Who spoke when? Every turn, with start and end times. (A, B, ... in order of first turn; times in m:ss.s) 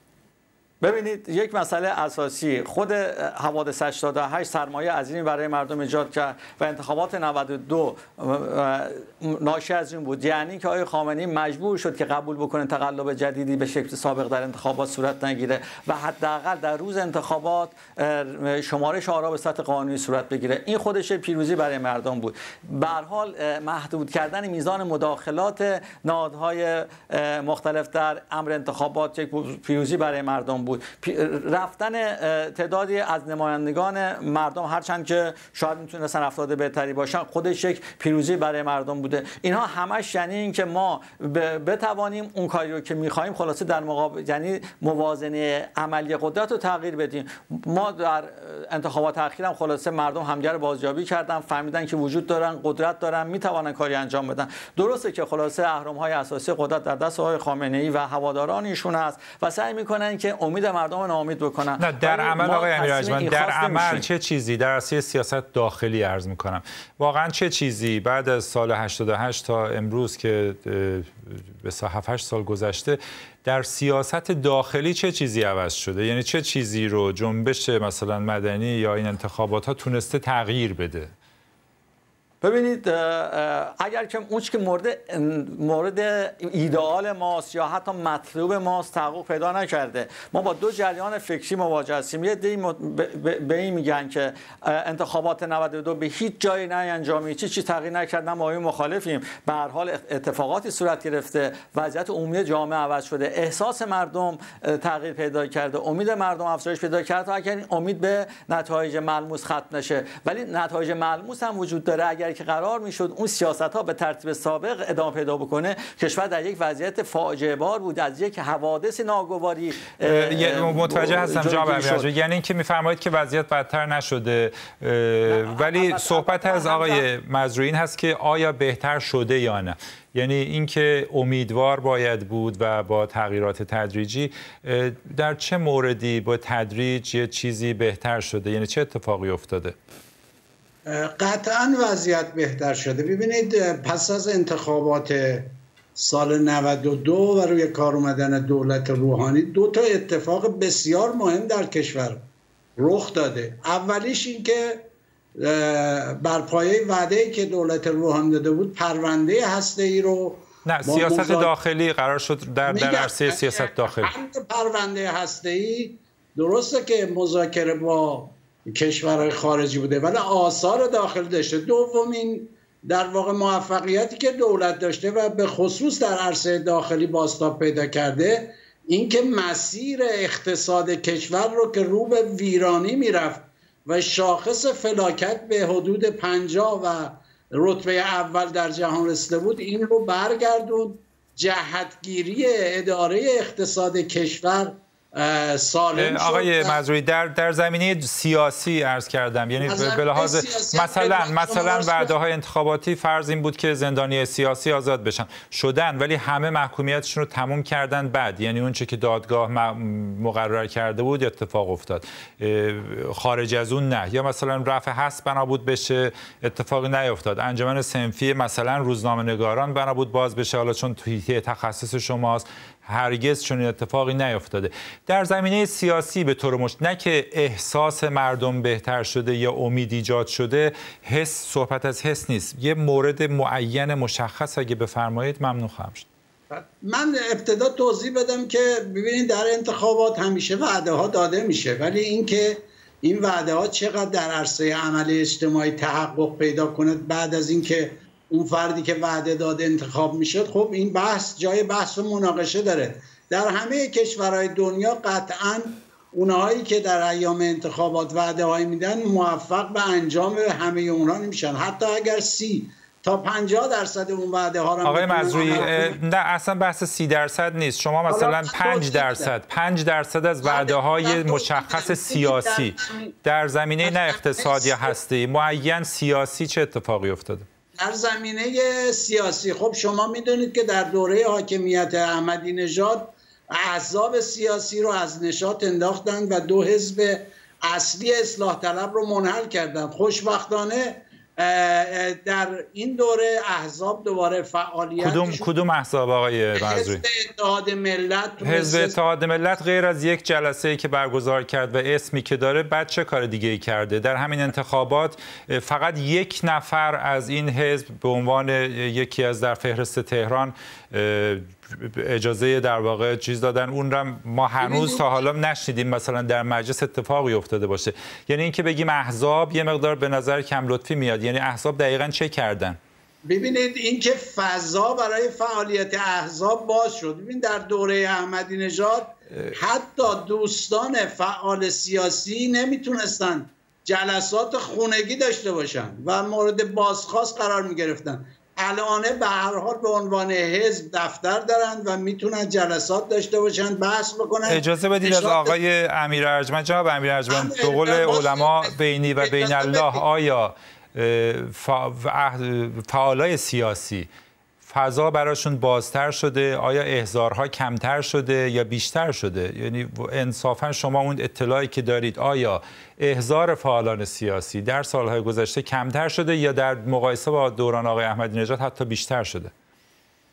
0:00.8-1:04.1 A
1:01.8-1:21.1 B
1:22.4-2:02.1 A
2:00.0-2:19.8 B
2:05.3-2:07.1 A
2:20.8-2:32.2 C
2:32.8-2:41.5 C
2:40.6-2:44.1 B
2:42.7-3:16.8 C
3:16.0-3:56.1 B
3:19.6-3:22.2 C
3:56.5-4:26.0 C
4:24.8-4:37.4 B
4:28.1-4:29.3 C
4:30.4-4:33.2 C
4:33.8-4:35.0 C
4:37.8-4:55.5 C
4:55.0-4:57.0 B
4:56.6-4:59.0 C
4:58.4-5:22.8 B
5:14.6-5:15.1 C
5:23.2-5:45.6 C
5:44.5-5:54.1 B
5:47.3-5:50.0 C
5:54.7-6:09.5 B